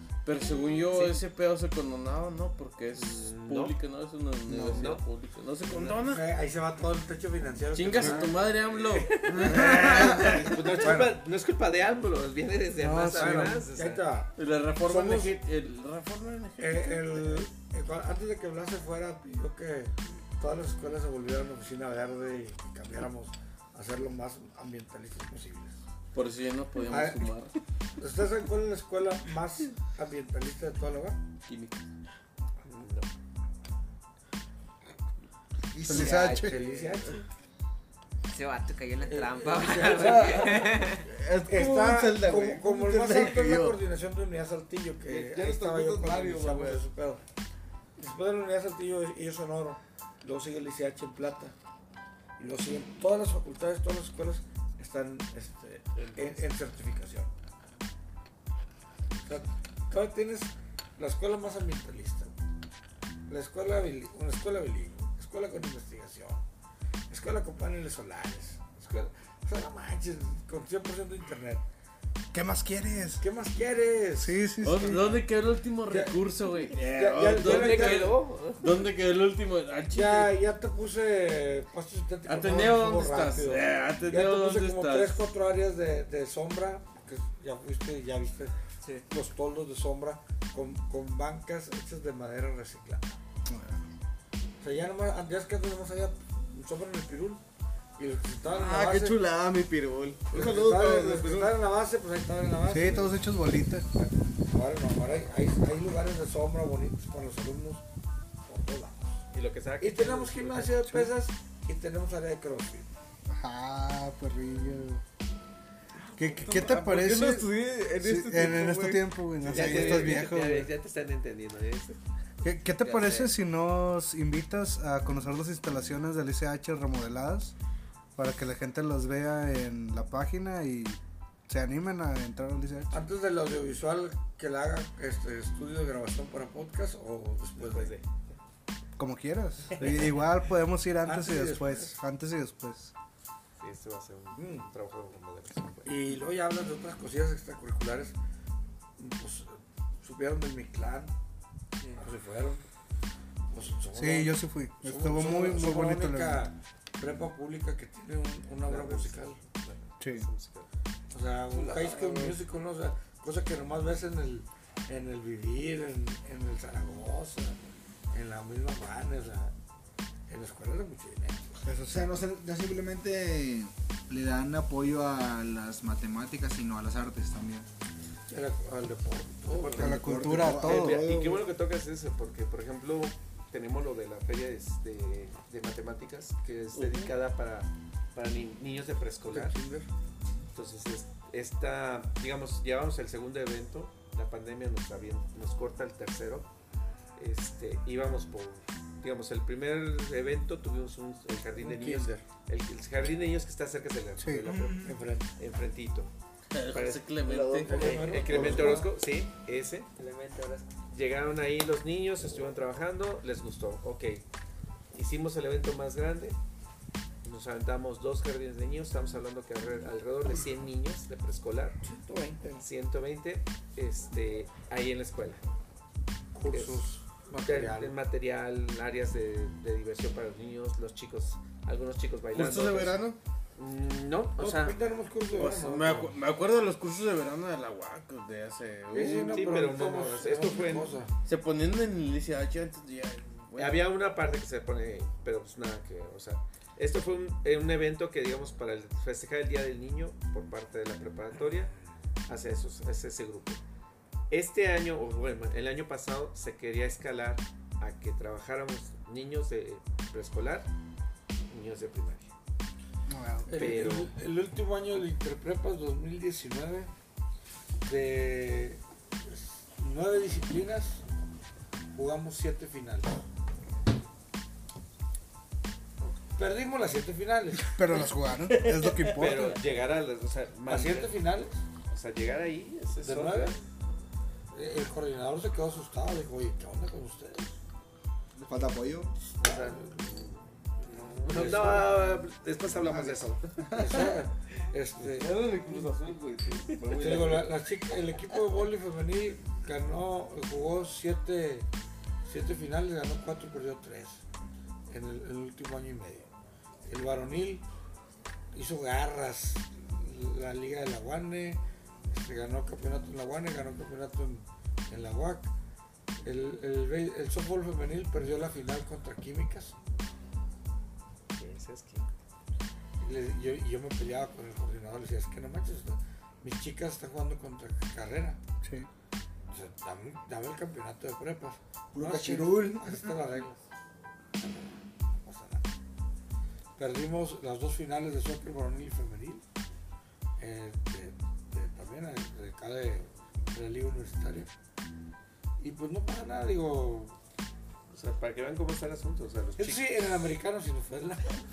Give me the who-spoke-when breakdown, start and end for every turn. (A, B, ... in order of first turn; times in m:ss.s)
0:00.2-0:06.2 A
0:00.9-0:01.2 B
0:03.0-0:03.8 B
0:04.5-0:04.9 C
0:04.8-0:05.0 B
0:05.7-0:11.2 D
0:07.7-0:09.4 A
0:09.2-0:14.0 B
0:12.8-0:13.6 C
0:13.0-0:14.3 D
0:14.4-0:17.4 A
0:14.8-0:15.4 D
0:16.6-0:25.8 D
0:26.1-0:27.5 A
0:26.9-0:27.3 D
0:28.0-0:31.2 D
0:31.5-0:31.8 A
0:32.6-0:33.1 B
0:35.8-0:36.8 E
0:35.8-0:36.6 C
0:35.9-0:37.2 D
0:38.3-0:41.1 E
0:39.1-0:40.7 D
0:39.8-0:43.8 F
0:41.4-0:47.2 D
0:45.1-0:46.9 F
0:48.0-0:51.6 D
0:52.4-0:57.3 D
0:59.2-1:02.3 D
1:03.3-1:06.4 D
1:07.1-1:11.6 D
1:12.3-1:13.2 C
1:13.2-1:15.2 D
1:14.2-1:15.0 C
1:14.6-1:20.4 A
1:15.9-1:18.2 D
1:17.5-1:18.6 B
1:19.9-1:28.5 D
1:22.2-1:25.2 A
1:29.1-1:33.2 D
1:33.5-1:33.9 C
1:34.6-1:37.4 D
1:38.0-1:39.2 D
1:38.5-1:41.5 F
1:40.3-1:43.2 D
1:42.7-1:43.9 C
1:44.5-1:47.8 D
1:48.5-1:49.2 D
1:49.3-1:50.7 B
1:49.8-1:52.9 D
1:50.8-1:51.1 C
1:53.3-1:55.0 C
1:56.0-2:00.3 F
1:56.2-2:00.7 C
1:59.5-2:02.0 B
2:02.4-2:07.5 C
2:02.8-2:03.3 B
2:08.2-2:13.0 C
2:12.9-2:18.0 D
2:17.6-2:18.0 B
2:19.0-2:22.9 C
2:21.0-2:22.0 D
2:23.6-2:26.0 B
2:24.3-2:24.7 D
2:25.8-2:28.1 D
2:29.0-2:31.1 D
2:32.0-2:32.6 D
2:33.5-2:39.4 D
2:33.9-2:36.4 C
2:38.6-2:40.7 B
2:40.0-2:40.3 C
2:41.1-2:47.6 D
2:42.0-2:42.3 F
2:48.1-2:49.6 D
2:50.3-2:51.6 D
2:51.6-2:52.3 C
2:51.9-2:57.7 G
2:58.3-2:59.9 D
2:59.5-3:09.6 B
2:59.7-3:01.5 G
2:59.8-3:01.0 C
3:06.8-3:07.1 F
3:09.3-3:09.8 F
3:10.5-3:16.5 B
3:17.2-3:26.1 B
3:21.6-3:22.1 D
3:24.2-3:24.6 C
3:24.8-3:25.4 D
3:26.5-3:28.0 A
3:26.7-3:29.9 B
3:27.2-3:28.9 F
3:27.7-3:28.9 D
3:30.0-3:30.7 E
3:30.9-3:34.2 B
3:34.9-3:36.4 B
3:37.2-3:41.8 B
3:41.8-3:42.7 D
3:42.6-3:45.4 B
3:46.3-3:48.0 D
3:46.5-3:46.9 B
3:47.4-3:53.0 B
3:52.3-3:53.2 A
3:53.6-3:54.8 B
3:54.4-3:56.2 D
3:55.4-3:59.4 A
3:58.9-4:01.1 D
3:59.2-4:01.0 B
4:01.3-4:03.8 A
4:03.6-4:11.7 B
4:12.3-4:13.6 B
4:14.3-4:20.7 B
4:21.5-4:22.3 B
4:23.1-4:23.5 C
4:23.5-4:26.9 D
4:23.5-4:24.2 B
4:27.8-4:31.0 D
4:32.0-4:33.2 D
4:36.4-4:38.1 D
4:37.7-4:39.6 C
4:39.0-4:41.1 B
4:40.7-4:41.6 D
4:41.8-4:43.6 B
4:43.0-4:43.6 D
4:44.5-4:47.6 D
4:48.4-4:49.2 G
4:49.4-4:50.2 B
4:49.5-4:50.0 D
4:51.0-4:52.2 D
4:51.2-4:54.0 B
4:52.9-4:54.1 F
4:53.7-4:55.4 D
4:55.0-4:57.5 F
4:56.9-5:01.7 D
5:02.2-5:04.2 D
5:04.9-5:06.3 D
5:06.9-5:07.6 D
5:08.5-5:15.5 D
5:16.2-5:19.8 D
5:21.3-5:22.1 B
5:23.0-5:28.4 D
5:28.6-5:28.9 C
5:29.5-5:33.6 D
5:31.9-5:33.1 G
5:34.4-5:35.7 D
5:36.8-5:39.4 D
5:40.4-5:44.5 D
5:45.6-5:47.2 D
5:47.9-5:49.9 B
5:49.6-5:51.4 D